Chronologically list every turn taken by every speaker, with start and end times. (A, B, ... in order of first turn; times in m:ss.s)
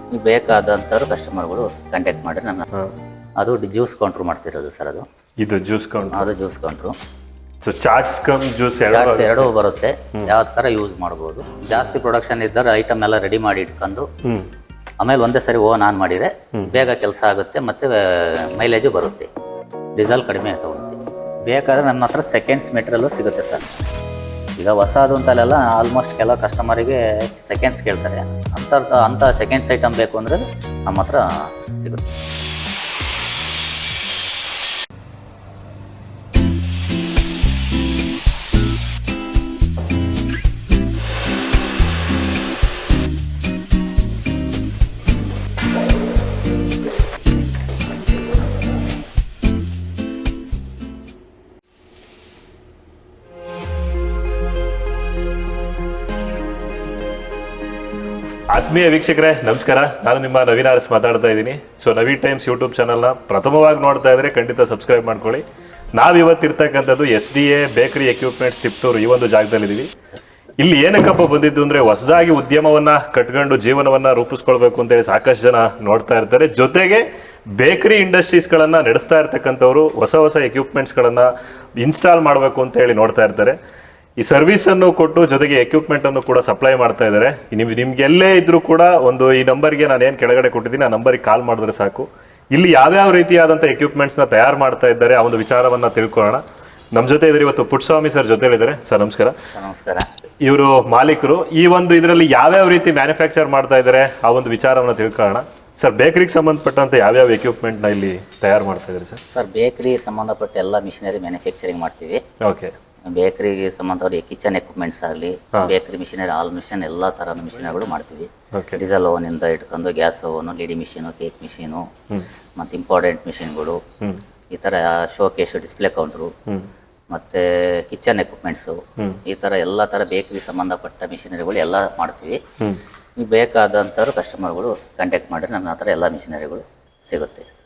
0:00.1-0:02.7 A
0:03.4-0:05.0 A
0:05.4-0:06.3 B
0:06.1-0:07.0 A
0:07.6-0:09.5 B
0:08.9-0:14.1 A
0:14.2-0:14.5 B
0:15.0-0:19.3 A
0:16.6-0:16.8 B
0:20.0-0:23.9 A
0:24.6-0:32.0 A
0:58.5-1:09.9 B
1:10.6-1:23.6 B
1:24.2-1:39.4 B
1:39.5-1:40.1 A
1:40.4-1:49.2 B
1:49.3-1:52.2 A
1:52.4-1:52.7 B
1:53.1-2:01.9 A
1:58.5-1:58.8 B
2:02.6-2:03.8 A
2:04.5-2:06.3 A
2:07.1-2:12.4 A
2:13.2-2:17.5 A